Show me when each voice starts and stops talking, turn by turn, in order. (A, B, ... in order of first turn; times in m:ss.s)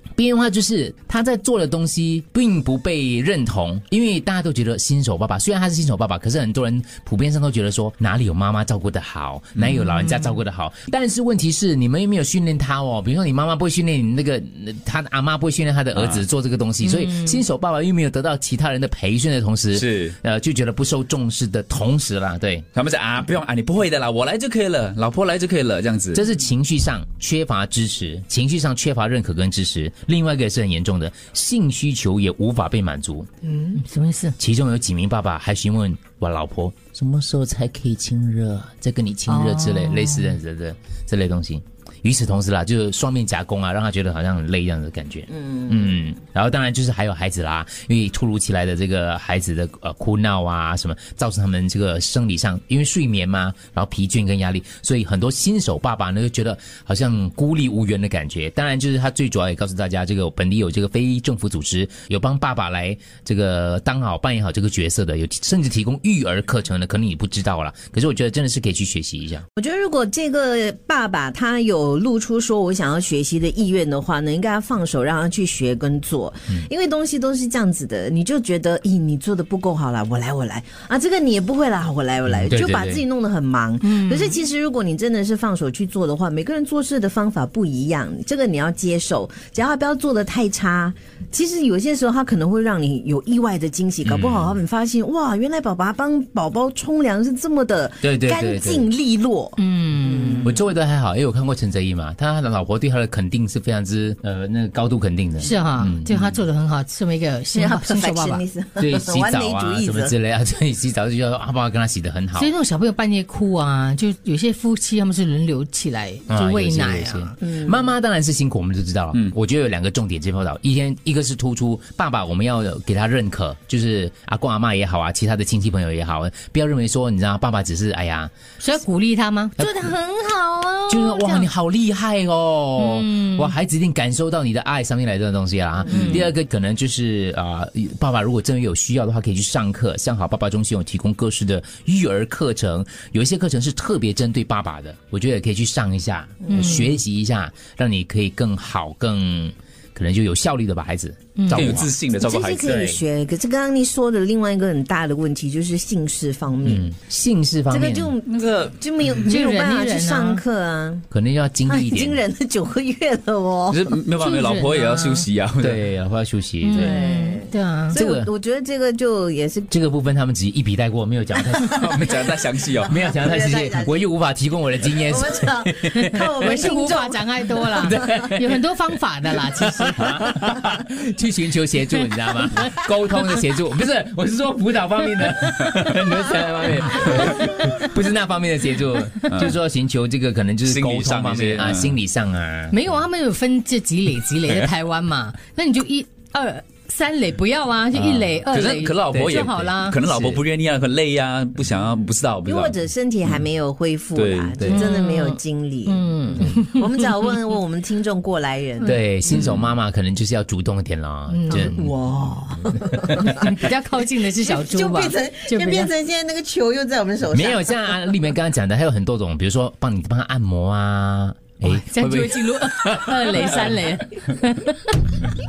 0:00.2-0:22.7 A
0:09.8-0:10.4 B
0:16.0-0:16.2 C
0:16.8-0:17.4 B
0:19.7-0:20.2 C
0:22.7-0:26.2 C
0:26.1-0:33.3 A
0:33.7-0:34.4 B
0:34.4-1:09.5 A
0:39.3-0:40.4 B
0:45.3-0:46.0 D
1:09.6-1:40.6 D
1:22.3-1:23.0 A
1:23.8-1:24.3 B
1:34.0-1:34.6 A
1:38.0-1:38.9 A
1:39.6-1:40.5 B
1:40.4-1:46.4 A
1:45.4-1:48.4 B
1:47.5-1:50.2 D
1:48.8-1:52.5 A
1:52.4-1:57.4 B
1:56.3-2:08.3 A
1:57.4-1:57.9 D
2:08.6-2:11.5 B
2:10.9-2:31.9 A
2:12.8-2:13.5 B
2:15.9-2:16.2 B
2:15.9-2:16.3 D
2:26.5-2:27.0 B
2:31.4-2:31.8 B
2:31.5-2:32.8 C
2:32.1-2:36.9 D
2:32.6-2:33.0 A
2:36.7-2:38.1 A
2:37.7-2:41.1 D
2:38.2-2:38.8 C
2:39.3-2:40.4 B
2:41.1-2:42.2 A
2:41.7-2:44.0 D
2:43.7-2:45.8 C
2:44.2-2:45.3 B
2:45.6-2:46.9 A
2:46.6-2:48.0 B
2:46.7-2:49.7 D
2:47.9-2:48.3 A
2:49.7-2:52.3 A
2:51.3-2:51.7 D
2:51.7-2:52.9 C
2:52.9-2:54.0 D
2:52.9-2:56.6 A
2:54.9-2:58.0 D
2:56.0-3:00.4 B
2:57.8-2:58.6 A
2:59.4-3:12.8 A
3:05.7-3:07.5 C
3:09.2-3:09.6 C
3:10.6-3:12.0 C
3:12.7-3:20.1 B
3:18.0-3:18.2 A
3:18.2-3:22.8 C
3:22.4-3:29.0 D
3:24.2-3:24.6 C
3:24.6-3:24.8 A
3:24.7-3:27.0 B
3:28.8-3:31.9 A
3:29.3-3:29.7 C
3:31.3-3:31.7 B
3:31.5-3:33.5 D
3:32.9-3:33.3 A
3:33.2-3:35.9 B
3:34.4-3:38.0 D
3:37.3-3:43.7 A
3:41.6-3:45.0 B